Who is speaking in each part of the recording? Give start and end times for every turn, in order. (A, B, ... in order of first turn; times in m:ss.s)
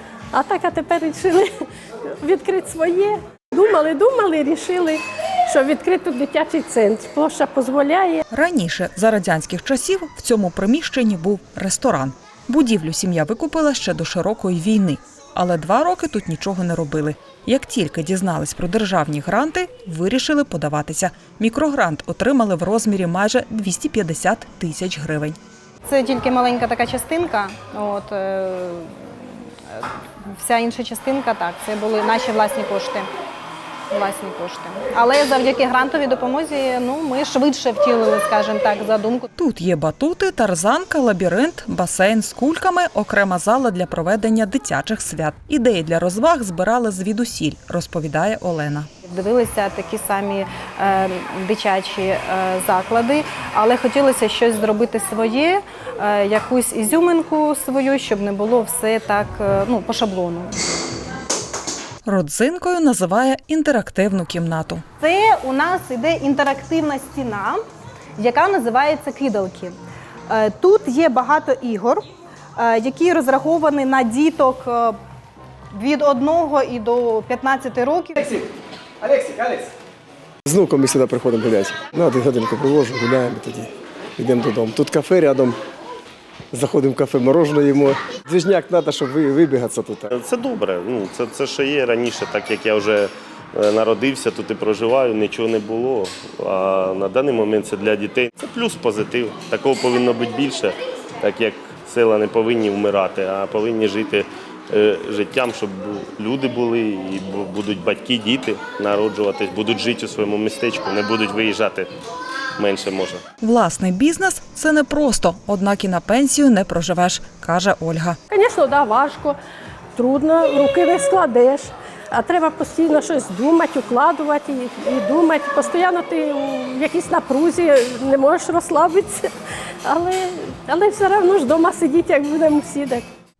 0:00.3-0:01.6 A
0:02.2-0:08.2 A
0:08.3-0:25.4 B
0:25.8-0:29.1 C
0:30.4-0:33.1 C
0:33.9-0:39.3 C
0:39.4-0:48.9 B
0:49.0-1:00.5 C
1:02.0-1:04.8 B
1:05.0-1:07.6 C
1:08.2-1:09.8 C
1:10.3-1:12.0 C
1:12.6-1:15.0 C
1:15.7-1:18.3 C
1:20.4-1:25.6 D
1:26.5-1:30.1 D
1:30.1-1:51.9 E
1:52.6-1:53.2 E
1:53.4-1:58.2 B
1:58.3-1:59.4 A
1:59.9-2:09.3 A
2:09.8-2:13.0 A